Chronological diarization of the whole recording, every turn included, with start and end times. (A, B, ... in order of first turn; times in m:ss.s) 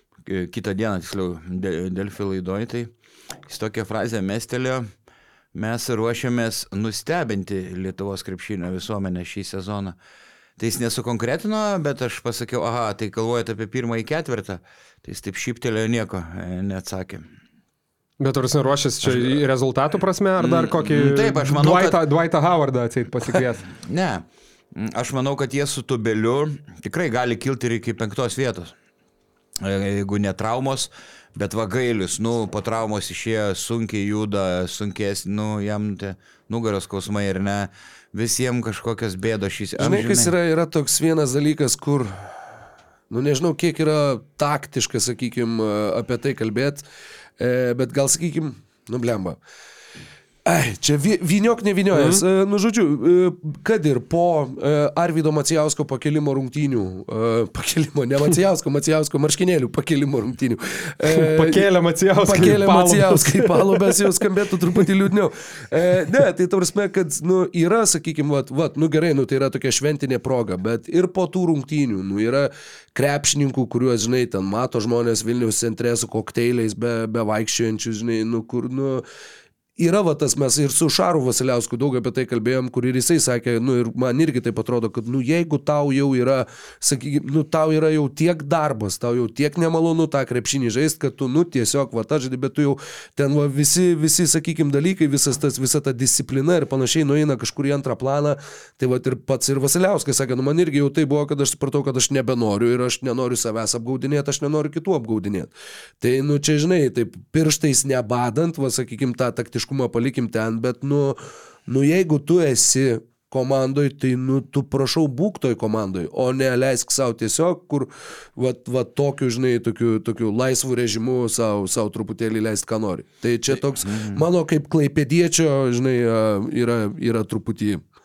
0:00.2-0:02.9 A
0:03.5-0:04.9 A
0:05.5-0:10.0 A
0:10.6-0:17.3 A
0:18.2-0:23.6 B
0:19.0-0:19.4 A
0:20.4-0:22.0 A
0:23.8-0:24.2 A
0:24.7-0:28.7 A
0:29.6-0:40.3 A
0:39.8-0:42.4 C
0:43.1-0:46.8 C
0:47.4-0:49.4 C
0:50.4-1:19.0 C
0:51.9-0:52.2 B
1:01.0-1:04.1 B
1:19.8-2:07.8 C
2:03.8-2:04.2 A